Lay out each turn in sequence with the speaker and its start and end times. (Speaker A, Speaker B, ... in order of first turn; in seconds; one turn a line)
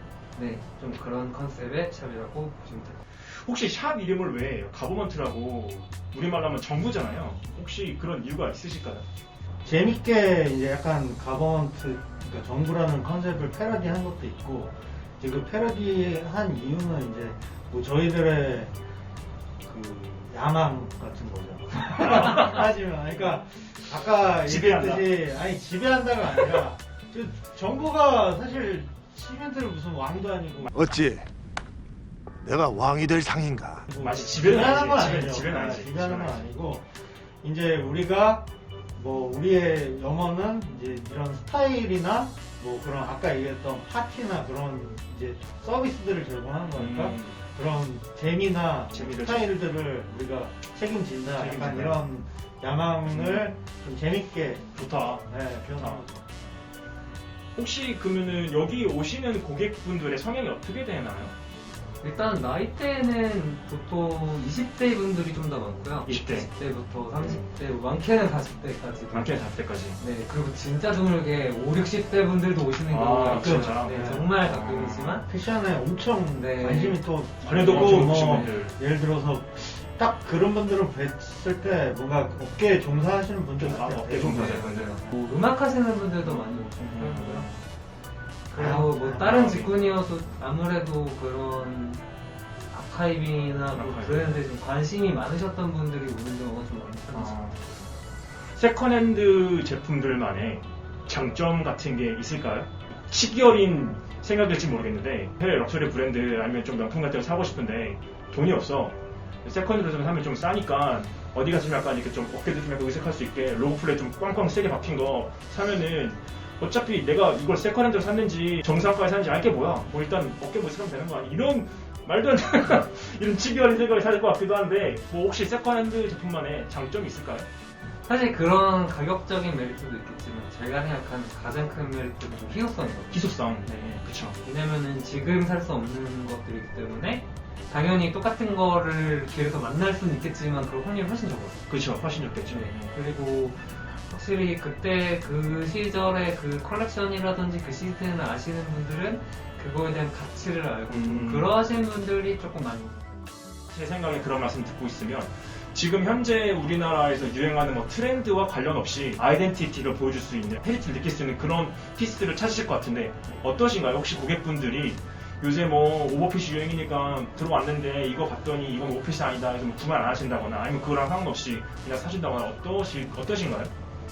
Speaker A: 0.3-3.0
Speaker B: 3.2-9.0
Speaker C: 9.6-18.7
Speaker C: 19.6-30.7
Speaker B: 22.0-22.7
Speaker B: 24.4-25.1
Speaker D: 30.7-31.3
Speaker D: 32.4-33.9
Speaker C: 33.9-36.9
Speaker B: 34.0-36.4
Speaker C: 37.4-56.4
Speaker B: 46.7-47.4
Speaker B: 48.9-49.5
Speaker B: 51.4-52.0
Speaker B: 53.1-53.5
Speaker B: 54.7-56.1
Speaker B: 57.5-61.3
Speaker A: 62.0-69.4
Speaker B: 66.0-66.5
Speaker B: 69.1-70.0
Speaker A: 70.0-75.3
Speaker B: 72.9-75.2
Speaker C: 73.3-73.8
Speaker C: 75.2-84.6
Speaker A: 76.3-78.6
Speaker B: 77.4-78.7
Speaker B: 83.6-85.0
Speaker A: 84.1-87.5
Speaker B: 86.2-87.6
Speaker A: 88.5-92.0
Speaker C: 88.5-89.4
Speaker B: 89.2-89.7
Speaker A: 92.7-97.4
Speaker B: 93.7-94.4
Speaker B: 97.1-97.6
Speaker B: 98.5-127.5
Speaker A: 128.1-141.6
Speaker B: 133.1-134.4
Speaker B: 141.7-142.9
Speaker A: 142.5-152.9
Speaker B: 150.9-151.5
Speaker B: 153.7-173.7